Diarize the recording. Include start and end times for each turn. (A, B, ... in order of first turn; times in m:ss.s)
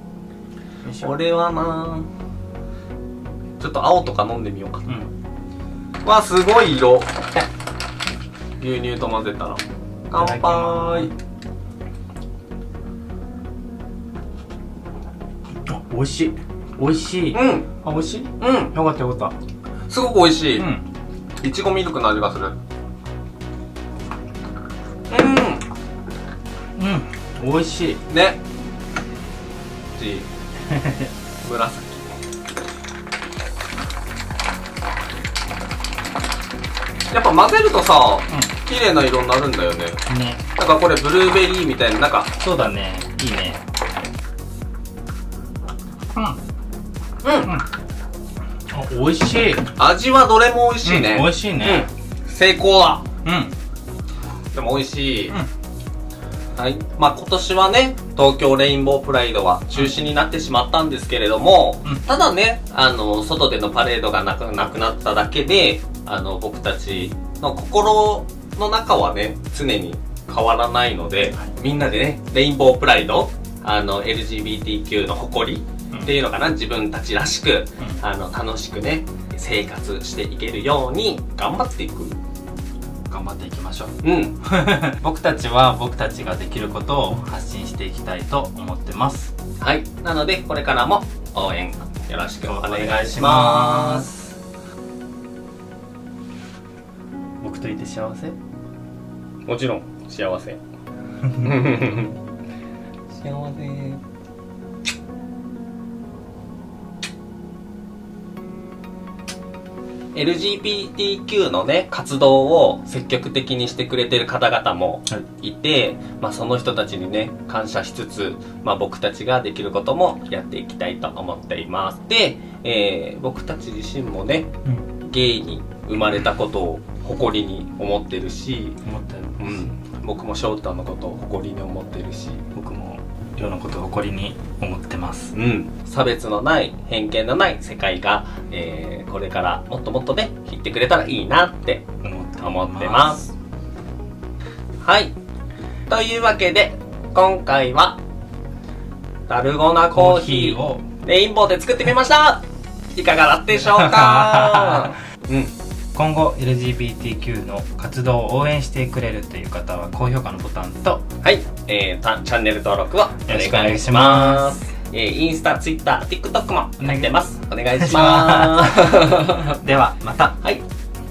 0:00.9-0:01.1 A
0:01.0-0:02.1 B
0:03.6-0:04.9 B
0:06.0-0:07.2 B
0:08.6-0:11.1 B
0:10.2-0:11.1 A
0:15.7-0:19.3 A
0:17.3-0:17.8 B
0:18.4-0:18.8 B
0:19.9-0:20.7 B
0:20.6-0:20.8 A
0:21.4-0:22.6 B
0:25.1-0:25.6 B
0:26.8-0:28.0 A
0:28.1-0:28.4 B
0:29.9-0:30.3 B
0:30.8-0:31.1 A
0:31.4-0:32.1 B
0:37.1-0:40.0 B
0:40.1-0:40.4 A
0:40.6-0:42.3 B
0:42.4-0:43.6 A
0:47.2-0:47.5 B
0:48.7-0:49.6 A
0:49.8-0:53.1 B
0:50.8-0:51.9 A
0:53.2-0:53.5 A
0:54.5-0:55.4 B
0:56.6-1:22.2 B
1:23.1-1:29.3 A
1:24.0-1:24.4 B
1:29.6-1:34.1 B
1:32.4-1:34.2 A
1:37.4-1:38.4 A
1:39.5-1:40.6 B
1:41.4-1:42.2 B
1:43.2-1:44.0 B
1:50.1-2:04.5 B
2:05.0-2:08.8 B
2:08.8-2:09.7 A
2:09.4-2:12.4 B
2:12.5-2:15.3 A
2:15.3-2:21.9 B
2:22.0-2:23.3 A
2:22.4-2:23.3 B
2:24.8-2:25.1 B
2:25.9-2:28.0 B
2:29.3-2:35.5 B
2:29.9-2:30.8 A
2:33.7-2:35.0 A
2:35.9-2:41.0 A
2:41.2-2:49.6 B
2:43.3-2:44.6 A
2:46.8-2:47.2 A
2:47.7-2:49.0 A
2:49.5-2:50.3 A